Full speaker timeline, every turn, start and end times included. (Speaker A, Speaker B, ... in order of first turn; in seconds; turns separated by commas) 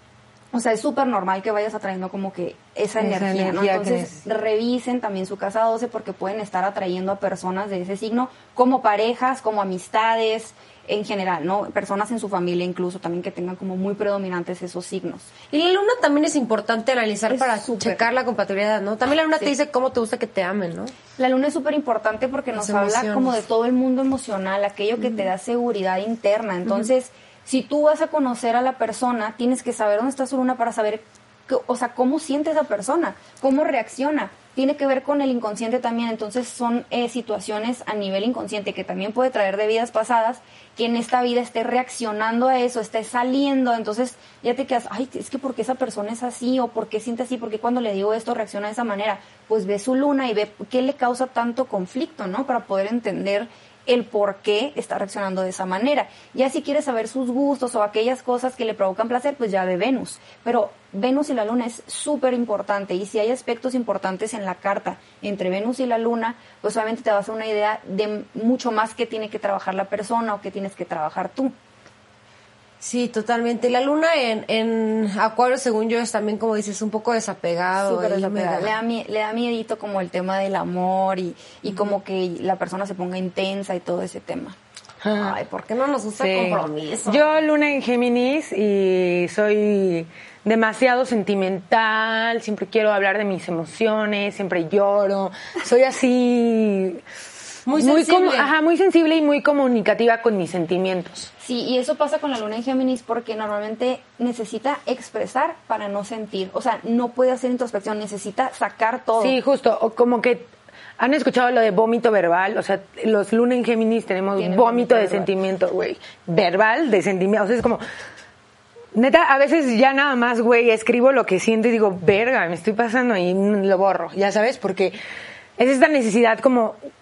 Speaker A: 0.5-15.3, Speaker B: 3.0-4.2, Speaker C: 15.5-20.9, Speaker A: 17.3-18.1, Speaker A: 21.2-71.5, Speaker C: 22.5-23.4, Speaker C: 72.8-78.8, Speaker A: 77.8-84.5, Speaker B: 85.0-85.4, Speaker C: 85.2-87.3, Speaker B: 86.2-97.0, Speaker C: 97.7-98.5, Speaker B: 97.7-101.3, Speaker A: 101.4-109.3, Speaker B: 109.2-117.8, Speaker A: 114.3-115.3, Speaker B: 118.9-125.0, Speaker B: 125.6-126.8